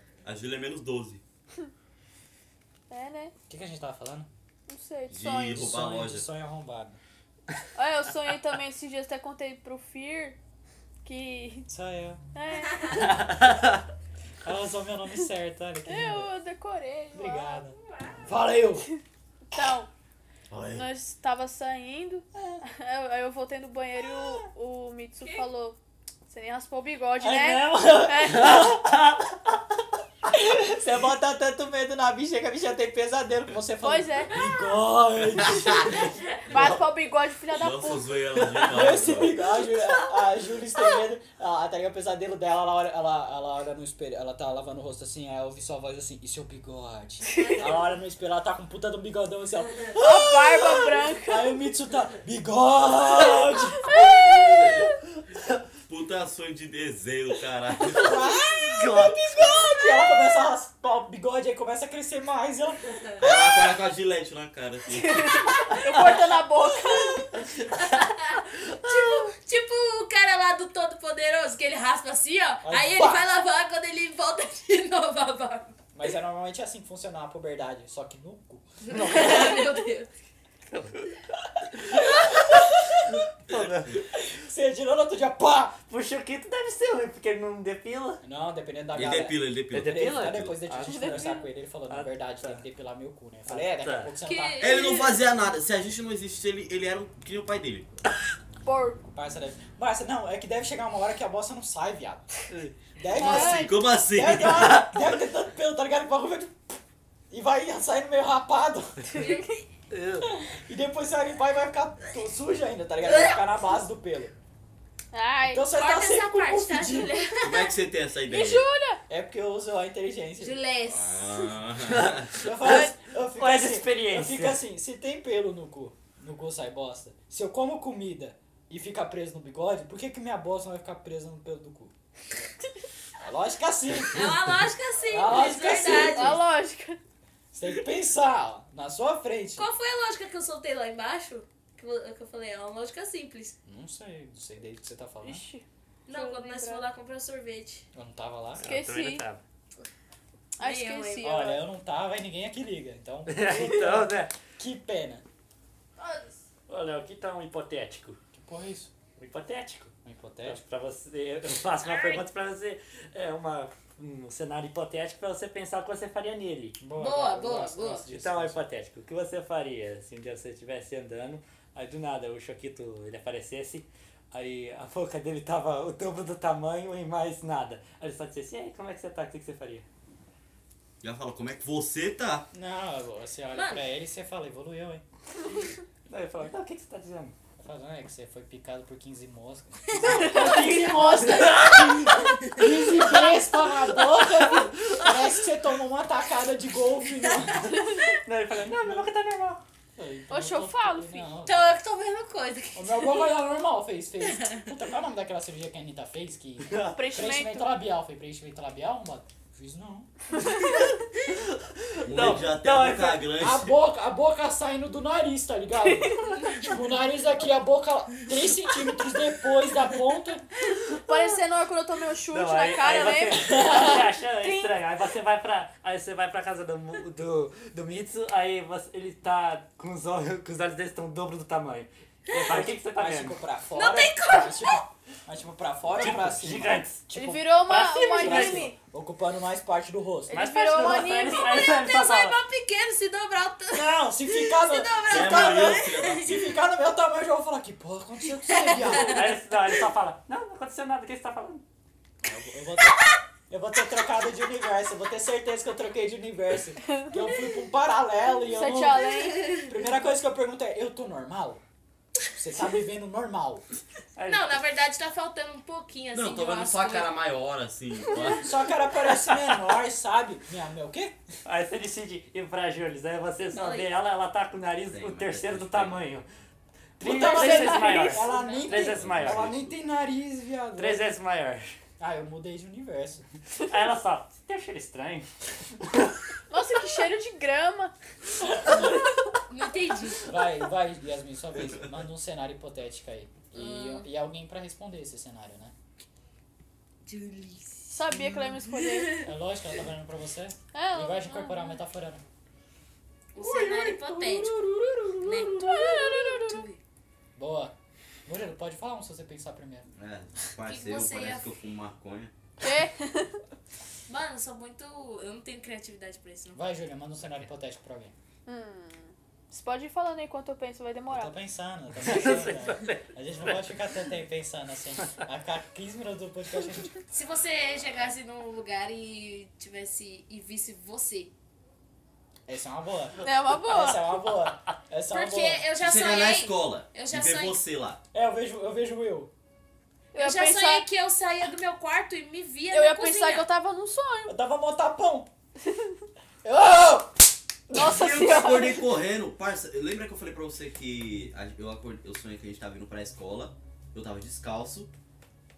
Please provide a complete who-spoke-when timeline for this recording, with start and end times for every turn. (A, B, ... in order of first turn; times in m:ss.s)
0:00.2-0:01.2 A
0:02.9-0:03.3 B
0:03.5-0:04.3 C
0:04.7-0:05.7 B
0:05.1-0:06.2 A
0:05.5-0:07.0 C
0:07.8-0:10.4 B
0:11.0-0:11.7 B
0:11.7-0:12.2 C
0:12.4-0:13.1 B
0:13.0-0:13.8 D
0:14.4-0:16.3 C
0:15.9-0:17.6 B
0:17.1-0:18.9 C
0:17.6-0:18.3 E
0:19.5-0:19.9 B
0:20.5-0:20.8 A
0:20.7-0:25.8 B
0:26.3-0:28.6 B
0:27.2-0:28.9 C
0:28.3-0:29.3 D
0:30.3-0:36.8 C
0:33.8-0:34.4 B
0:35.3-0:36.1 A
0:36.2-0:36.4 E
0:36.5-0:38.6 B
0:37.5-0:39.4 A
0:38.6-0:54.8 C
0:47.4-0:47.8 E
0:50.0-0:51.5 B
0:53.8-0:54.9 B
0:55.9-0:58.2 A
0:58.0-1:03.4 C
0:58.7-0:59.3 D
1:03.2-1:05.6 A
1:04.9-1:07.3 B
1:05.9-1:06.2 C
1:07.6-1:15.8 E
1:12.6-1:13.2 C
1:16.0-1:19.6 C
1:18.8-1:20.1 E
1:19.2-1:19.5 D
1:20.7-1:21.2 D
1:21.8-1:22.6 D
1:21.9-1:23.2 C
1:23.1-1:24.0 D
1:23.5-1:23.9 A
1:24.1-1:25.8 C
1:25.9-1:28.2 D
1:28.2-1:34.8 C
1:28.9-1:30.6 A
1:29.7-1:31.3 D
1:30.9-1:31.4 B
1:31.9-1:32.6 D
1:33.5-1:34.1 D
1:34.2-1:35.2 E
1:34.6-1:37.9 A
1:38.6-1:39.0 B
1:39.1-1:42.3 C
1:42.5-1:42.8 D
1:42.9-1:46.8 C
1:43.1-1:44.8 A
1:43.2-1:43.7 B
1:44.4-1:45.0 D
1:47.3-1:49.3 C
1:49.1-1:49.6 E
1:49.2-1:49.4 B
1:49.9-1:50.3 D
1:50.2-1:54.3 C
1:53.1-1:53.4 E
1:55.1-1:55.7 B
1:55.5-1:57.2 C
1:55.7-1:57.8 E
1:57.4-1:58.7 A
1:58.3-1:59.0 B
1:59.1-2:00.6 C
2:00.4-2:01.6 E
2:00.8-2:02.4 A
2:01.8-2:04.6 D
2:02.4-2:11.9 C
2:13.2-2:16.4 C
2:14.1-2:16.4 E
2:16.1-2:17.0 B
2:17.5-2:19.7 C
2:19.6-2:23.6 E
2:23.7-2:25.4 C
2:25.2-2:26.9 B
2:26.1-2:27.8 E
2:28.0-2:28.6 C
2:28.6-2:29.4 D
2:28.6-2:29.2 B
2:30.6-2:31.6 B
2:30.6-2:31.4 E
2:31.2-2:35.2 C
2:33.3-2:34.3 D
2:36.0-2:36.4 B
2:36.7-2:38.2 D
2:38.3-2:38.9 C
2:39.2-2:39.9 D
2:40.0-2:40.6 C
2:40.4-2:46.9 D
2:41.8-2:42.2 E
2:46.8-2:48.6 C
2:47.0-2:48.1 E
2:48.1-2:59.8 D
3:01.0-3:02.5 A
3:02.5-3:05.0 C
3:03.5-3:03.8 E
3:06.1-3:07.3 D
3:07.6-3:17.7 C
3:10.0-3:12.1 D
3:14.4-3:15.2 D
3:17.7-3:19.6 D
3:20.0-3:21.8 C
3:20.3-3:21.3 B
3:21.4-3:23.3 E
3:22.8-3:30.1 C
3:24.2-3:24.7 E
3:26.7-3:27.0 D
3:27.0-3:27.7 B
3:30.6-3:33.2 D
3:32.0-3:33.8 A
3:33.4-3:40.4 C
3:36.0-3:36.4 B
3:40.9-3:41.4 D
3:41.1-3:44.7 B
3:42.3-3:53.4 D
3:43.5-3:44.0 C
3:52.3-3:52.6 E
3:52.4-4:00.4 C
3:53.7-3:54.8 E
3:55.9-3:57.0 D
3:57.2-3:58.8 B
3:57.7-3:58.7 D
4:00.3-4:01.6 B
4:00.3-4:02.4 D
4:01.3-4:06.3 E
4:03.7-4:09.2 C
4:05.0-4:06.6 A
4:08.4-4:09.2 E
4:09.0-4:11.6 D
4:12.2-4:21.6 C
4:18.5-4:19.6 B
4:19.4-4:19.7 E
4:22.3-4:23.6 C
4:24.2-4:24.5 D
4:24.3-4:27.1 E
4:26.1-4:28.6 A
4:28.4-4:31.2 C
4:31.5-4:36.2 D
4:33.5-4:33.9 E
4:34.9-4:36.0 A
4:37.0-4:39.5 D
4:37.0-4:41.0 C
4:37.2-4:38.3 B
4:38.2-4:38.8 E
4:38.7-4:39.8 A
4:40.8-4:41.8 D
4:42.0-4:43.2 C
4:43.6-4:45.3 D
4:45.8-4:46.2 D
4:46.5-4:47.9 B
4:48.4-4:49.0 C
4:48.7-4:49.0 B
4:49.5-4:50.3 E
4:50.3-4:55.7 C
4:53.5-4:54.1 E
4:57.1-4:59.3 E
4:57.9-4:59.3 B
4:59.2-5:02.2 C
5:00.7-5:01.8 B
5:03.3-5:04.6 E
5:03.4-5:06.4 C
5:05.2-5:06.8 E
5:05.6-5:06.6 B
5:07.4-5:07.8 C
5:08.3-5:09.9 C
5:09.9-5:12.3 A
5:10.6-5:11.5 E
5:12.6-5:13.4 B
5:14.1-5:16.6 E
5:16.5-5:18.1 C
5:18.5-5:21.4 B
5:21.1-5:27.0 C
5:22.0-5:23.7 D
5:27.1-5:31.3 E
5:32.5-5:35.7 C
5:33.2-5:34.1 B
5:35.1-5:37.6 E
5:35.8-5:38.0 A
5:38.1-5:39.3 C
5:40.1-5:40.9 B
5:40.2-5:43.5 E
5:42.7-5:44.3 B
5:44.3-5:45.3 C
5:45.7-5:45.9 B
5:46.4-5:48.1 C
5:47.8-5:48.8 B
5:47.8-5:54.9 A